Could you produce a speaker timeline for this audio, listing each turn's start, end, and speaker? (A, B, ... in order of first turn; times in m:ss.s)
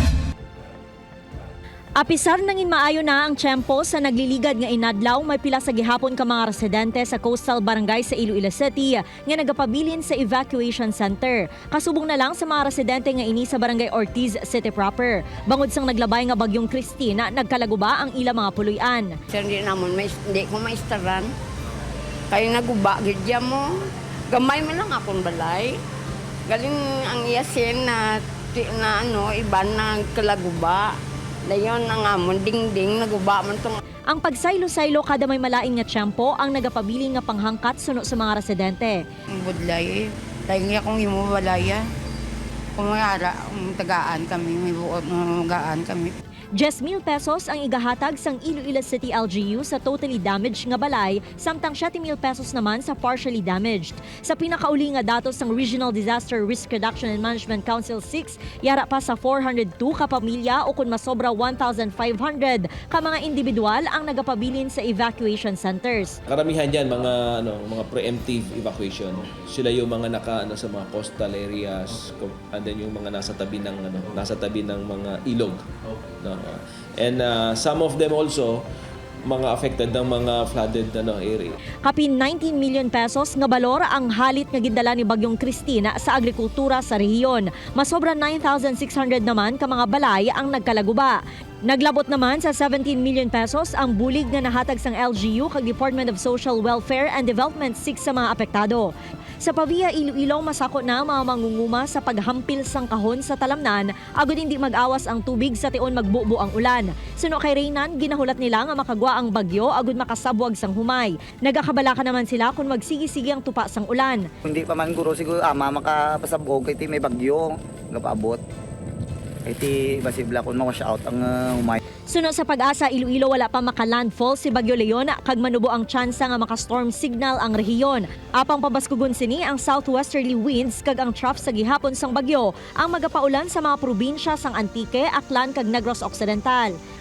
0:02.0-0:19.1 A
0:19.3-0:21.3 B
0:22.3-0:23.7 B
0:24.3-0:25.8 B
0:26.5-0:30.9 B
0:31.5-0:33.8 B
0:34.1-0:39.0 A
0:39.3-0:41.8 C
0:42.8-0:46.1 C
0:46.6-1:06.2 A
1:06.3-1:15.6 D
1:16.2-1:18.6 D
1:19.2-1:21.6 D
1:21.8-1:38.9 A
1:39.4-1:54.2 A
1:54.4-1:58.4 E
1:59.4-2:01.8 E
2:02.1-2:16.8 A